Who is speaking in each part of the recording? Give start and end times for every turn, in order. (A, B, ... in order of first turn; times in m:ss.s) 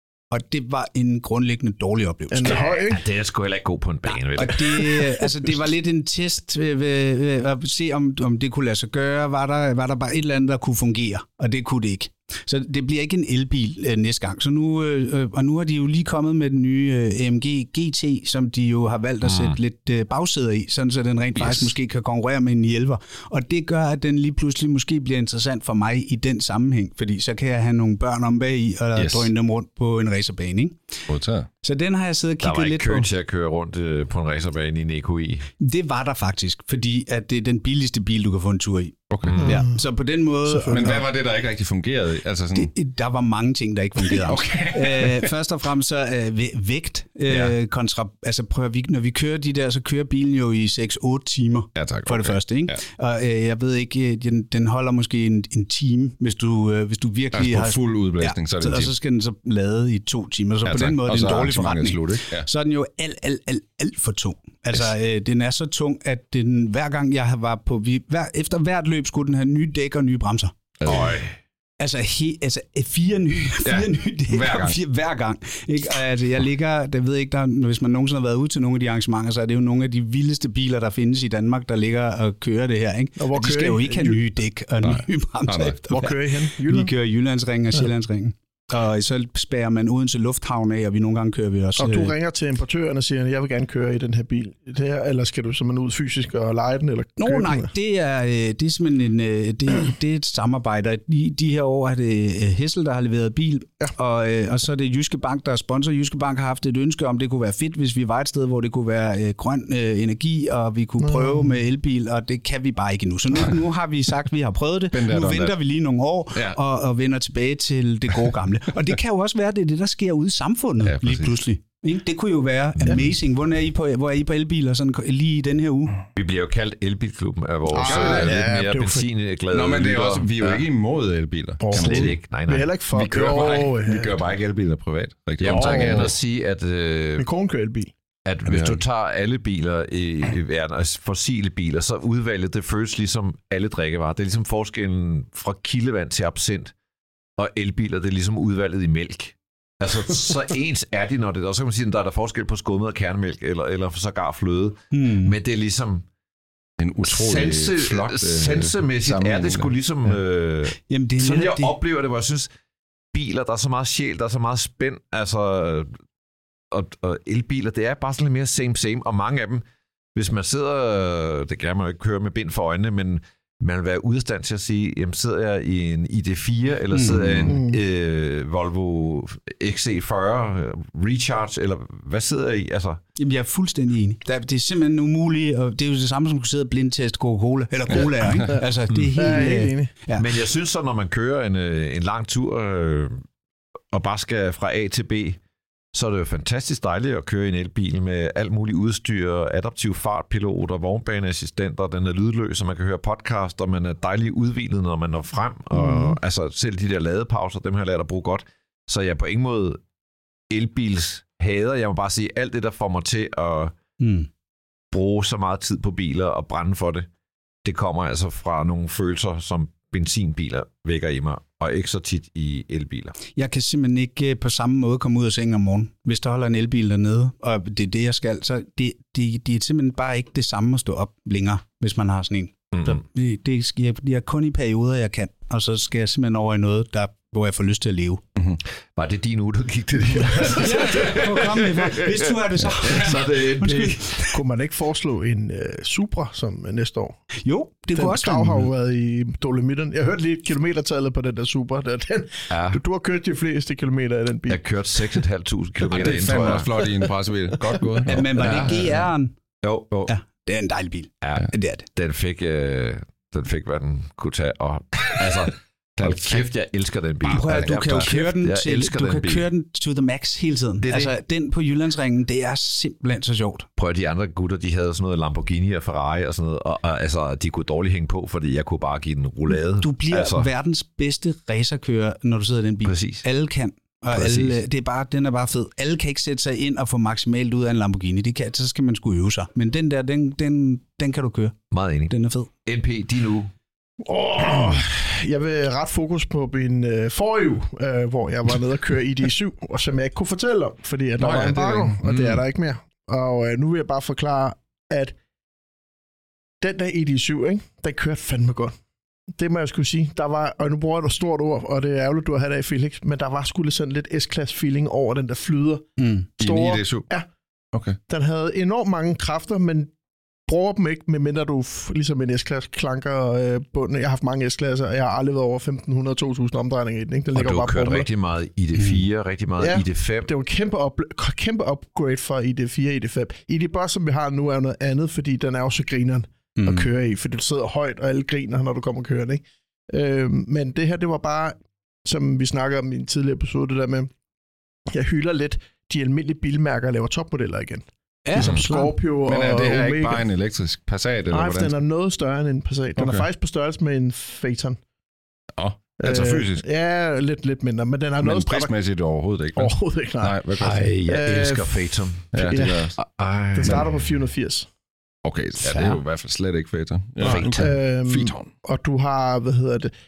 0:00.3-0:02.6 A
0:02.3-0:03.0 B
0:02.4-0:05.0 C
0:04.3-0:31.0 A
0:19.2-0:19.6 C
0:29.0-0:29.3 D
0:31.1-0:31.5 D
0:31.6-0:33.1 A
0:32.4-0:35.5 C
0:35.6-0:41.0 A
0:39.1-0:39.6 D
0:39.2-0:39.6 C
0:39.4-0:39.8 B
0:40.4-0:41.0 B
0:40.7-0:42.7 D
0:42.5-1:10.5 A
0:44.0-0:45.3 D
0:47.3-0:47.5 D
0:51.7-0:52.8 D
0:57.3-0:58.9 D
1:00.6-1:02.5 D
1:10.8-1:11.2 D
1:10.8-1:11.4 C
1:11.8-1:32.1 A
1:13.6-1:14.8 D
1:23.2-1:24.2 B
1:24.8-1:25.8 D
1:25.9-1:26.9 B
1:31.8-1:37.7 B
1:37.2-2:06.0 A
1:51.0-1:51.5 B
1:54.9-1:55.6 D
2:00.8-2:01.4 D
2:06.1-2:10.6 C
2:07.7-2:09.1 B
2:07.8-2:08.4 D
2:09.5-2:12.1 D
2:11.6-2:14.2 B
2:11.7-2:12.7 C
2:12.9-2:16.1 D
2:15.4-2:17.3 C
2:15.5-2:16.1 B
2:17.2-2:17.9 B
2:18.2-2:26.7 C
2:18.4-2:18.8 D
2:27.4-2:36.0 C
2:34.9-2:35.4 A
2:36.8-2:39.7 D
2:37.0-2:42.5 C
2:40.8-2:41.8 A
2:43.1-2:45.9 C
2:46.7-2:49.6 C
2:50.1-3:03.0 C
2:56.9-2:57.6 A
2:57.4-2:57.8 B
3:03.2-3:10.3 A
3:08.2-3:08.5 D
3:08.9-3:09.2 C
3:09.1-3:09.9 B
3:10.2-3:13.2 C
3:13.9-3:15.4 C
3:15.9-3:29.8 C
3:30.5-3:33.7 C
3:34.0-3:34.3 A
3:34.9-3:37.1 C
3:37.6-3:43.2 C
3:43.3-3:58.2 A
3:59.0-4:04.3 C
4:00.5-4:04.2 A
4:04.3-4:07.2 B
4:07.4-4:08.7 A
4:07.9-4:14.6 B
4:12.5-4:12.8 C
4:14.5-4:16.8 C
4:15.9-4:19.1 D
4:18.0-4:19.3 A
4:18.4-4:18.8 C
4:19.6-4:20.1 C
4:20.1-4:21.9 A
4:21.2-4:29.4 C
4:26.0-4:26.5 D
4:27.2-4:33.7 A
4:27.3-4:28.1 D
4:30.8-4:31.1 C
4:33.8-4:40.5 C
4:39.5-4:51.6 A
4:42.8-4:43.2 C
4:44.1-4:44.6 C
4:51.7-4:52.1 C
4:52.1-4:52.5 A
4:52.6-4:53.5 C
4:54.0-5:05.1 B
5:01.2-5:02.0 D
5:02.0-5:02.4 C
5:06.6-5:08.7 B
5:09.3-5:17.2 B
5:16.0-5:16.3 A
5:16.4-5:17.1 D
5:18.1-5:19.9 B
5:20.5-5:28.1 B
5:27.3-5:30.3 C
5:28.8-5:29.0 A
5:29.6-5:44.1 B
5:36.6-5:36.9 A
5:44.9-5:50.2 B
5:48.2-5:48.9 A
5:48.4-5:48.6 C
5:49.3-5:51.8 D
5:51.3-5:54.8 B
5:53.0-5:53.2 D
5:55.6-5:56.6 D
5:56.0-5:58.7 B
5:58.2-6:00.9 D
5:59.6-6:00.4 B
6:00.6-6:04.0 C
6:01.0-6:02.9 B
6:02.3-6:03.0 D
6:03.5-6:04.7 B
6:05.2-6:08.5 D
6:05.6-6:06.0 C
6:07.2-6:09.9 B
6:07.2-6:07.7 C